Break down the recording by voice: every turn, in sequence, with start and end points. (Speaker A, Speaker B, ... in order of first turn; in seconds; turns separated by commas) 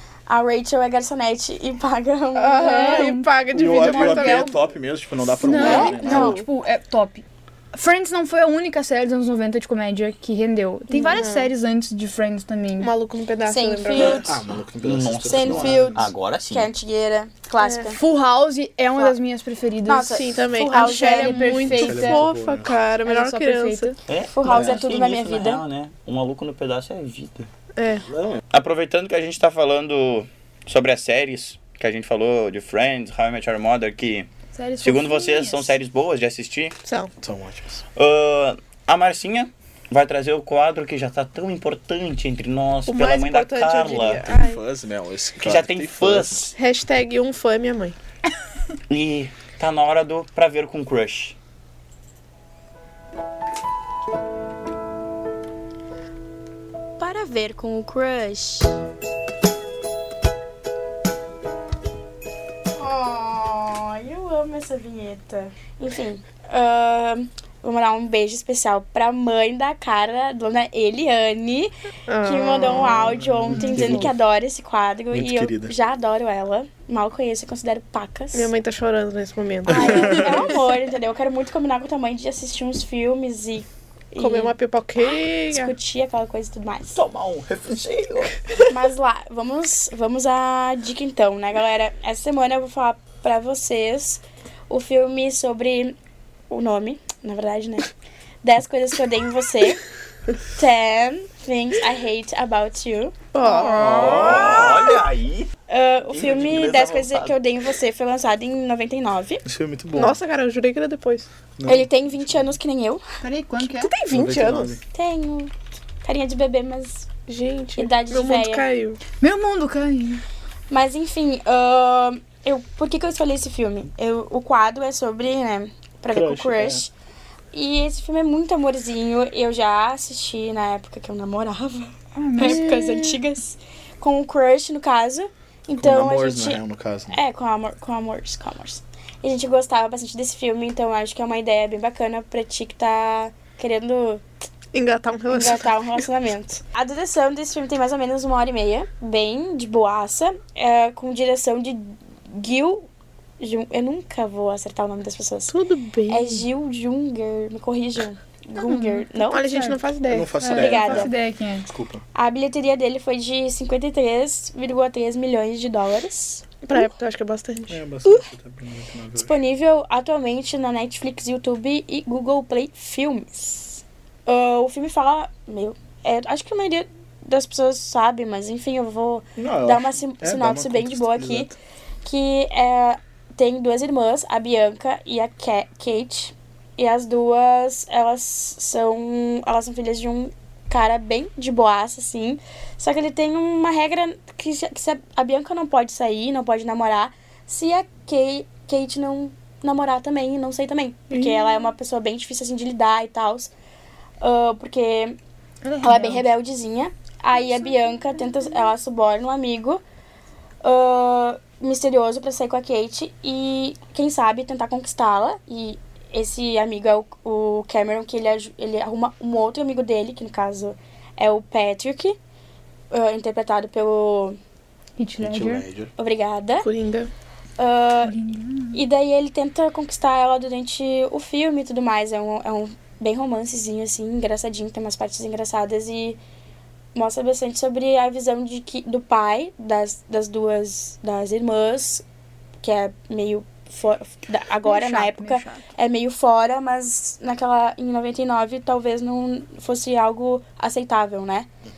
Speaker A: 0.3-3.1, Speaker B: 2.4-4.6, Speaker C: 2.5-4.5, Speaker D: 3.5-6.4, Speaker C: 5.4-12.9, Speaker B: 5.5-6.4, Speaker A: 5.6-6.4, Speaker B: 10.9-11.5, Speaker B: 12.8-14.2, Speaker A: 13.5-14.4, Speaker D: 13.9-16.1, Speaker E: 14.8-16.7, Speaker A: 15.3-18.0, Speaker B: 17.6-17.9, Speaker C: 17.9-20.2, Speaker A: 19.9-21.7, Speaker B: 20.1-23.9, Speaker C: 20.7-22.2, Speaker D: 21.7-22.8, Speaker C: 23.1-24.0, Speaker E: 24.1-27.5, Speaker A: 24.3-25.6, Speaker B: 27.8-28.1, Speaker D: 28.1-28.4, Speaker E: 28.5-34.3, Speaker C: 34.5-35.8, Speaker E: 34.8-36.8, Speaker B: 36.9-37.1, Speaker D: 37.2-37.8, Speaker E: 38.0-44.2, Speaker B: 42.9-44.6, Speaker D: 44.2-46.5, Speaker E: 45.4-46.5, Speaker B: 46.6-48.0, Speaker E: 48.9-51.4, Speaker A: 57.0-58.8, Speaker A: 62.8-78.5, Speaker B: 72.1-73.2, Speaker D: 73.0-74.2, Speaker C: 73.5-74.1, Speaker D: 75.1-75.7, Speaker B: 78.3-80.6, Speaker A: 79.7-84.5, Speaker D: 79.7-80.5, Speaker B: 84.2-85.7, Speaker A: 85.1-87.0, Speaker E: 86.9-88.4, Speaker A: 88.7-96.0, Speaker A: 96.5-97.9, Speaker A: 98.4-99.8, Speaker A: 100.5-105.0, Speaker B: 103.3-104.8, Speaker E: 103.8-105.5, Speaker A: 105.7-109.4, Speaker E: 106.1-107.4, Speaker D: 109.5-110.2, Speaker B: 110.0-111.3, Speaker D: 111.6-112.5, Speaker A: 111.7-113.0, Speaker C: 113.2-113.9, Speaker B: 113.7-114.8, Speaker D: 114.1-114.8, Speaker A: 114.9-117.1, Speaker B: 117.3-119.0, Speaker A: 117.8-118.7, Speaker C: 119.2-120.2, Speaker A: 120.7-126.9, Speaker D: 126.1-126.8, Speaker A: 127.5-136.6, Speaker C: 132.2-132.7, Speaker B: 132.5-132.9, Speaker D: 135.8-137.2, Speaker A: 137.1-144.2, Speaker B: 144.7-145.8, Speaker A: 145.3-152.9, Speaker A: 153.4-159.6, Speaker B: 155.5-156.4, Speaker C: 158.6-159.8, Speaker B: 159.2-160.4, Speaker D: 160.1-161.1, Speaker C: 160.4-161.7, Speaker A: 160.5-161.1, Speaker D: 161.7-162.0, Speaker A: 162.2-166.9, Speaker B: 166.6-167.8, Speaker D: 167.7-169.3, Speaker A: 169.2-181.5, Speaker D: 179.4-181.5, Speaker A: 182.0-203.5, Speaker B: 201.1-201.6, Speaker A: 204.2-205.2, Speaker C: 205.6-206.3, Speaker A: 205.8-209.8, Speaker A: 210.6-222.2, Speaker A: 222.9-224.4, Speaker C: 225.0-225.7, Speaker D: 225.2-225.9, Speaker A: 226.0-226.7, Speaker B: 226.6-227.1, Speaker A: 227.6-228.1, Speaker C: 228.0-228.8, Speaker A: 228.7-236.2, Speaker A: 236.9-242.0, Speaker A: 242.6-251.5, Speaker C: 244.6-245.7